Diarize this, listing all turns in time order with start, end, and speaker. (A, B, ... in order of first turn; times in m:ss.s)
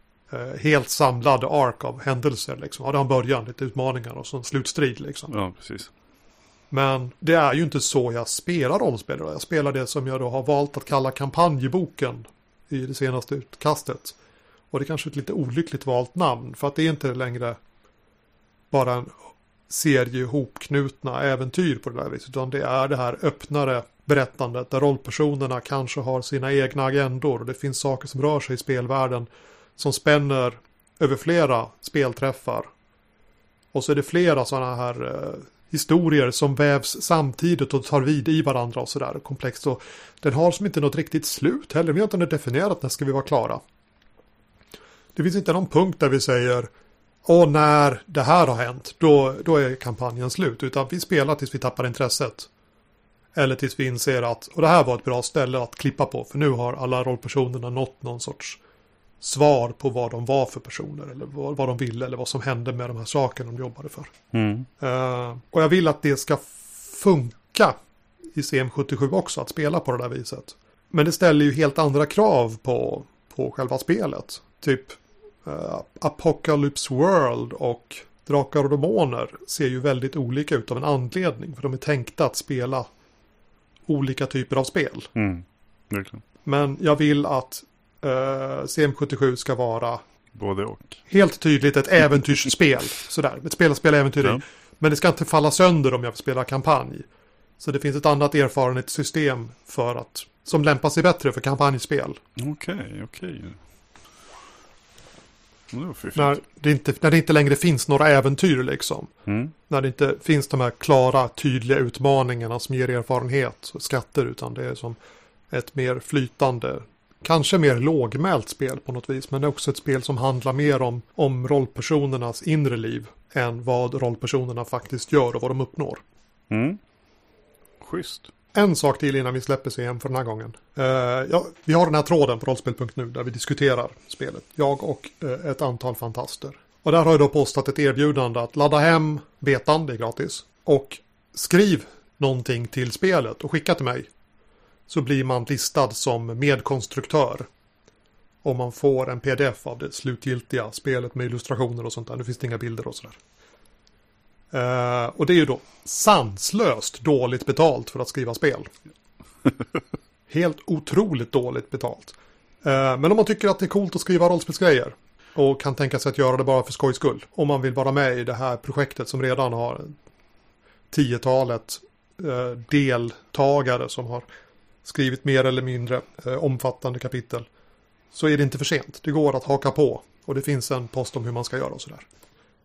0:00.3-0:05.3 A
0:05.3-0:05.9 B
0:06.7-0:14.2 A
0:14.7-0:17.6 A
0:18.7-0:19.1 A
0:19.7-0:32.7 A
0:33.7-0:43.6 A
0:45.2-0:46.7 A
0:47.2-0:52.5 A
0:53.4-0:58.6 A
0:59.2-1:04.1 A
1:04.3-1:04.7 B
1:04.8-1:07.8 A
1:08.4-1:22.9 A
1:23.9-1:25.1 A
1:25.2-1:26.2 B
1:26.4-1:30.0 A
1:30.3-1:31.0 B
1:31.1-1:37.0 A
1:37.6-1:42.2 A
1:42.4-1:43.6 B
1:45.7-1:46.4 B
1:46.2-1:49.1 A
1:49.3-1:49.5 B
1:49.7-1:55.0 A
1:55.5-2:06.0 A
2:06.5-2:06.8 B
2:07.8-2:08.3 B
2:08.5-2:24.1 A
2:24.9-2:27.5 A
2:28.4-2:33.2 A
2:34.5-2:38.7 A
2:40.3-2:49.9 A
2:50.9-2:54.2 A
2:54.8-2:57.5 A
2:58.1-3:02.1 A